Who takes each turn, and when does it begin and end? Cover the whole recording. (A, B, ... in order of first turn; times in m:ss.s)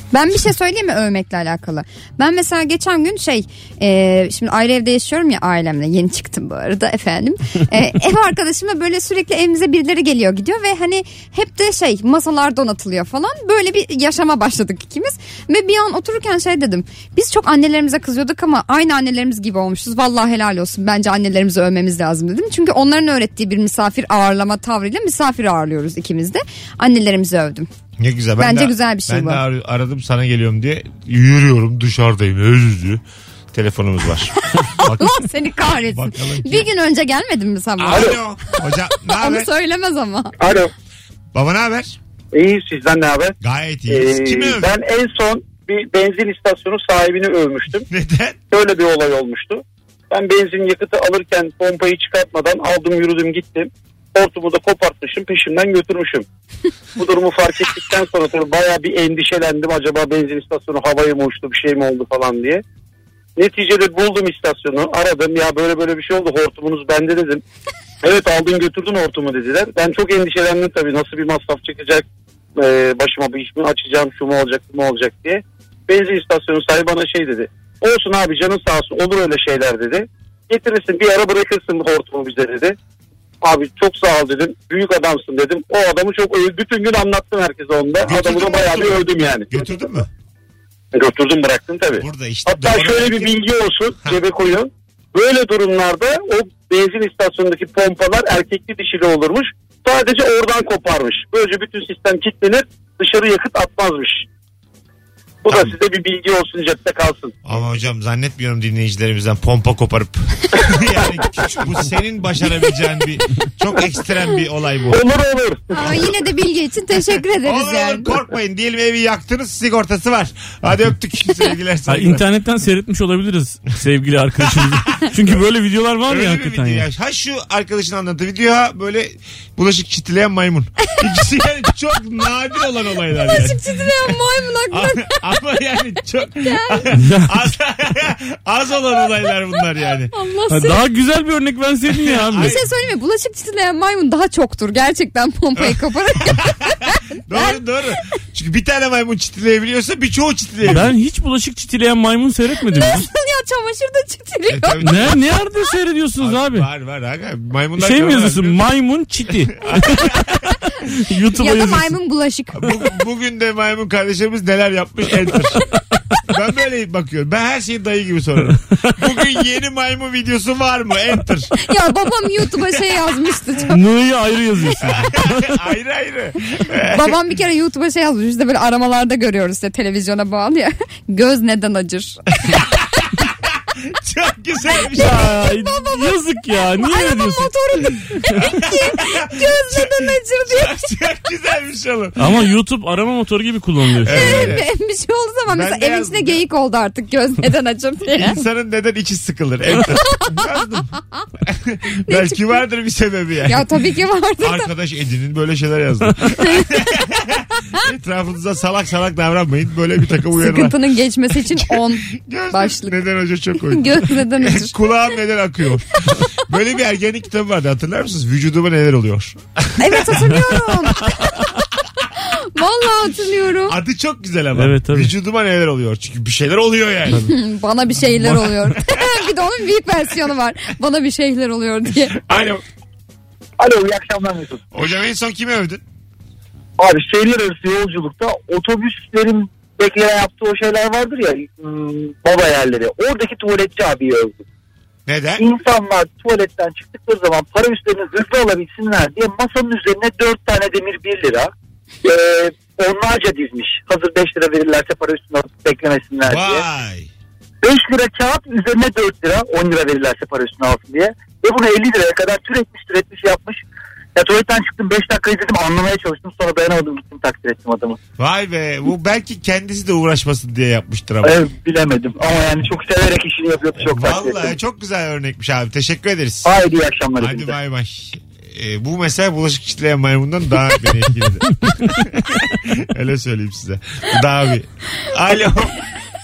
0:00.1-0:27.7 A
0:28.0-0:33.0 B
0:28.4-0:29.4 A
0:33.5-0:35.2 B
0:34.7-0:38.2 A
0:35.9-0:36.7 B
0:37.8-0:39.5 B
0:39.1-0:40.4 A
0:40.4-0:40.7 C
0:41.3-0:42.0 B
0:42.3-0:43.3 C
0:43.4-0:44.7 B
0:43.9-0:47.9 C
0:47.9-0:48.4 B
0:48.5-0:56.2 C
0:57.0-1:02.6 C
1:03.4-1:07.4 C
1:08.0-1:12.1 C
1:12.6-1:22.8 C
1:23.4-1:29.5 C
1:28.0-1:30.1 B
1:30.9-1:44.3 C
1:32.0-1:33.4 B
1:45.4-1:47.3 C
1:45.5-1:45.7 B
1:47.4-1:55.0 B
1:54.9-1:55.6 C
1:55.7-1:58.1 A
1:57.4-2:02.2 B
2:01.9-2:06.8 D
2:04.6-2:05.1 B
2:06.1-2:20.1 B
2:13.1-2:15.2 A
2:16.4-2:16.9 A
2:16.9-2:17.4 D
2:20.1-2:20.8 A
2:20.5-2:22.6 D
2:21.9-2:22.7 B
2:22.4-2:27.6 A
2:25.6-2:30.9 B
2:30.6-2:33.1 D
2:32.7-2:34.8 A
2:34.5-2:35.3 B
2:34.8-2:36.7 D
2:36.2-2:38.6 B
2:37.8-2:40.2 D
2:39.6-2:40.5 B
2:40.9-2:41.9 D
2:41.4-2:42.8 A
2:42.6-2:45.6 B
2:46.3-2:51.5 B
2:51.6-2:53.8 A
2:53.7-2:55.6 D
2:54.8-2:57.2 B
2:56.9-3:02.2 A
3:02.4-3:05.4 B
3:04.9-3:07.5 D
3:05.0-3:10.9 A
3:08.4-3:12.4 B
3:12.2-3:14.6 D
3:14.0-3:14.7 B
3:14.1-3:18.4 A
3:15.5-3:16.4 B
3:18.1-3:23.7 B
3:22.1-3:22.6 A
3:23.5-3:24.7 A
3:24.4-3:30.8 B
3:30.3-3:33.0 A
3:31.4-3:41.3 B
3:33.7-3:34.8 A
3:39.8-3:41.4 A
3:42.2-3:43.8 A
3:43.7-3:47.3 B
3:44.6-3:45.1 D
3:47.2-3:52.2 A
3:48.2-3:49.1 B
3:52.1-3:52.6 B
3:53.6-3:54.6 E
3:54.7-3:55.8 B
3:56.8-4:04.4 E
4:05.1-4:05.4 B
4:05.4-4:11.5 E
4:12.0-4:16.6 E
4:16.2-4:17.1 B
4:17.6-4:23.6 E
4:24.2-4:28.0 E
4:28.2-4:31.4 B
4:31.2-4:34.5 E
4:33.8-4:36.5 B
4:36.4-4:37.5 E
4:37.2-4:45.8 B